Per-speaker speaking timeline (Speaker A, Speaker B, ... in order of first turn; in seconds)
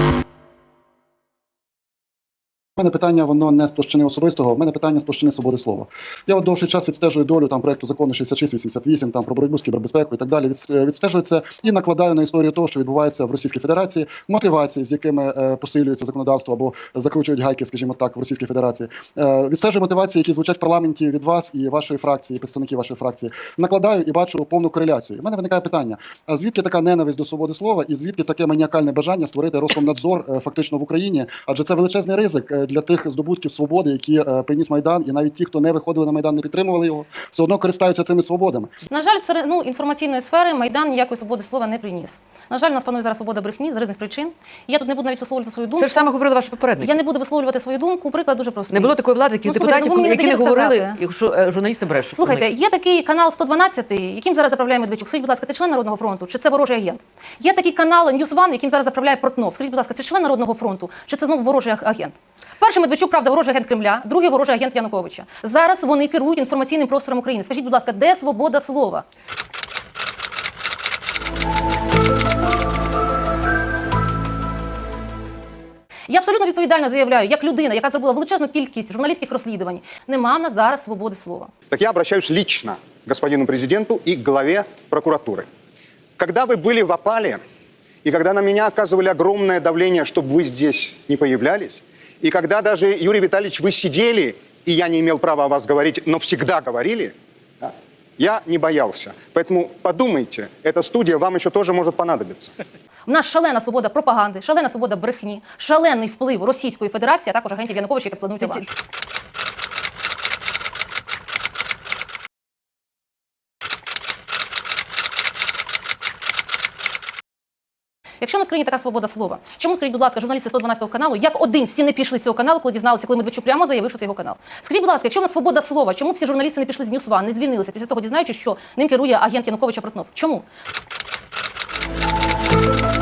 Speaker A: 2.8-38.7
Speaker B: 38.9-46.1, 46.8-51.0, 52.1-69.0, 76.1-81.5, 103.1-108.7, 118.2-130.4
Speaker C: 45.8-47.0, 48.7-52.5
Speaker D: 81.7-85.5, 86.2-87.4, 88.0-102.5